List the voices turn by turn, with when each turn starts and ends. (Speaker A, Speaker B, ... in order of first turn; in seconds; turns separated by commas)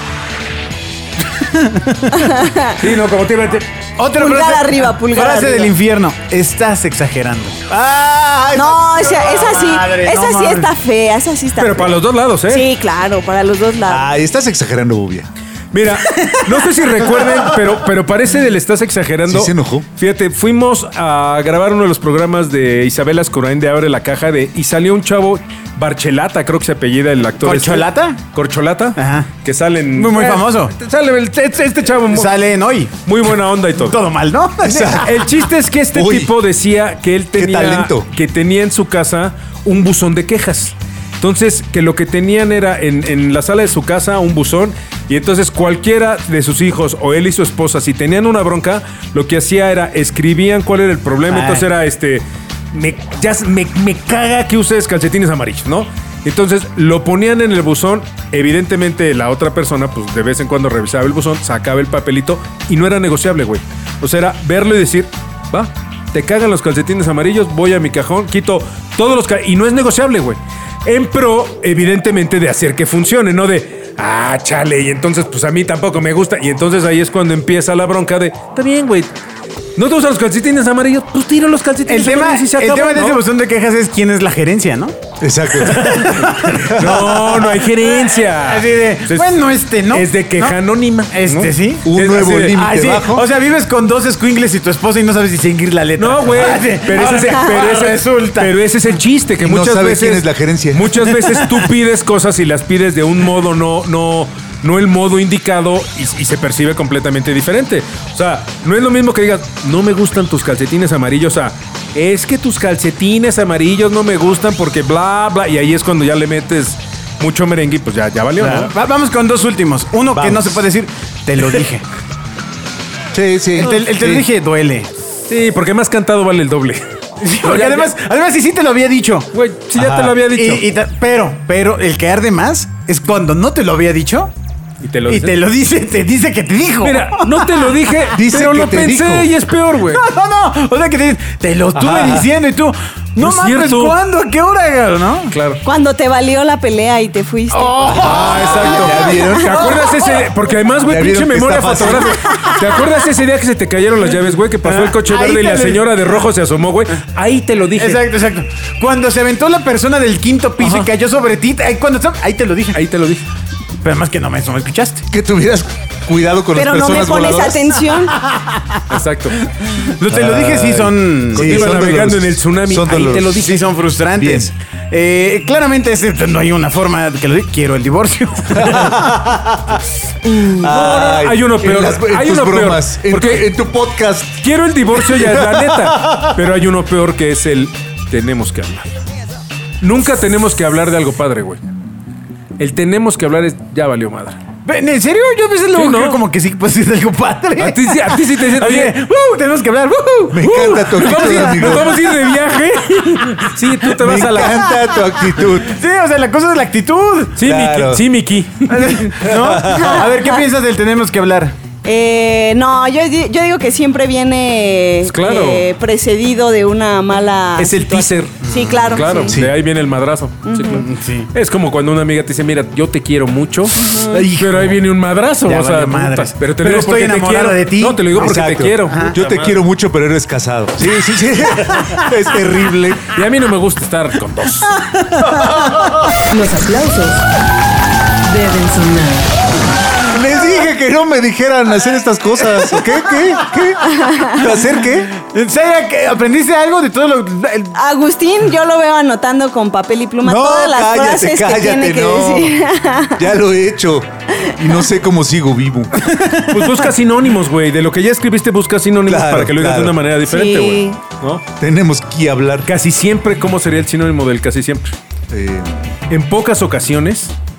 Speaker A: 1.2-2.1, Speaker B: 2.1-2.8, Speaker C: 2.8-3.7, Speaker A: 4.0-7.6, Speaker B: 4.2-5.7, Speaker D: 7.7-9.4, Speaker B: 8.5-12.0, Speaker A: 9.2-10.7, Speaker C: 11.6-12.7, Speaker B: 12.5-14.1, Speaker D: 13.9-15.3, Speaker C: 15.7-32.4, Speaker A: 17.2-17.5, Speaker D: 19.3-19.9, Speaker A: 27.4-28.2, Speaker A: 29.0-29.3, Speaker A: 29.9-30.8, Speaker A: 32.1-33.0, Speaker C: 33.0-34.0, Speaker A: 33.7-35.4, Speaker D: 34.6-35.2, Speaker C: 35.0-79.1, Speaker D: 35.9-36.3, Speaker D: 37.3-38.1, Speaker A: 51.3-51.7, Speaker C: 79.8-83.2, Speaker A: 81.9-85.0, Speaker D: 85.2-85.9, Speaker A: 85.5-90.6, Speaker C: 85.7-89.4, Speaker D: 86.8-87.1, Speaker C: 89.9-92.6, Speaker A: 91.1-91.9, Speaker D: 91.8-93.2, Speaker A: 92.5-98.5, Speaker C: 96.0-118.7, Speaker D: 99.4-100.9, Speaker A: 101.1-101.7, Speaker A: 118.4-121.8, Speaker D: 120.1-120.6, Speaker D: 123.1-124.3, Speaker A: 123.6-124.9, Speaker C: 125.3-126.9, Speaker A: 127.2-134.3, Speaker C: 127.4-127.9, Speaker C: 129.3-130.7, Speaker C: 134.8-135.4, Speaker A: 135.1-138.1, Speaker C: 136.8-140.1, Speaker D: 138.1-139.3, Speaker A: 139.9-145.4, Speaker D: 141.8-142.3, Speaker C: 143.2-144.0, Speaker C: 145.3-145.6, Speaker B: 145.6-150.1, Speaker A: 147.5-149.9, Speaker C: 148.0-158.0, Speaker D: 148.4-149.6, Speaker D: 150.8-152.1, Speaker B: 152.1-152.9, Speaker A: 154.6-156.2, Speaker A: 157.8-162.8, Speaker C: 160.6-160.9, Speaker C: 162.7-163.2, Speaker A: 163.8-165.1, Speaker D: 165.1-167.6, Speaker B: 166.5-168.2, Speaker A: 168.2-171.9, Speaker C: 168.9-169.4, Speaker D: 170.1-173.4, Speaker C: 171.2-173.6, Speaker A: 173.2-179.3, Speaker D: 174.2-174.5, Speaker D: 178.6-179.8, Speaker C: 180.3-183.5, Speaker D: 180.4-184.4, Speaker C: 184.4-189.0, Speaker D: 185.1-185.6, Speaker C: 189.8-191.6, Speaker C: 192.6-194.4, Speaker A: 194.6-202.1, Speaker C: 195.7-196.2, Speaker C: 197.6-199.0, Speaker D: 200.3-201.9, Speaker C: 200.4-204.6, Speaker D: 204.0-205.8, Speaker A: 204.3-207.4, Speaker C: 207.4-209.2, Speaker D: 207.4-208.0, Speaker A: 208.7-211.6, Speaker D: 209.2-210.1, Speaker B: 209.6-210.4, Speaker B: 211.8-219.4, Speaker C: 215.1-215.7, Speaker C: 217.6-229.6, Speaker A: 218.5-218.8, Speaker D: 219.3-219.5, Speaker B: 220.4-220.8, Speaker A: 220.7-221.3, Speaker B: 223.8-224.3, Speaker A: 224.1-224.8, Speaker A: 225.4-229.2, Speaker D: 228.1-233.1, Speaker A: 231.6-232.0, Speaker C: 233.0-234.8, Speaker A: 235.0-235.9, Speaker E: 236.3-237.3, Speaker E: 238.2-239.3, Speaker D: 240.1-245.1, Speaker B: 243.9-244.4, Speaker A: 244.9-247.8, Speaker B: 247.8-253.2, Speaker D: 250.2-252.6, Speaker D: 253.2-255.9, Speaker A: 256.0-256.9, Speaker C: 256.5-261.4, Speaker D: 259.1-260.0, Speaker B: 260.2-261.0, Speaker D: 261.6-262.7, Speaker C: 262.6-265.0, Speaker D: 265.3-265.8, Speaker C: 266.1-267.3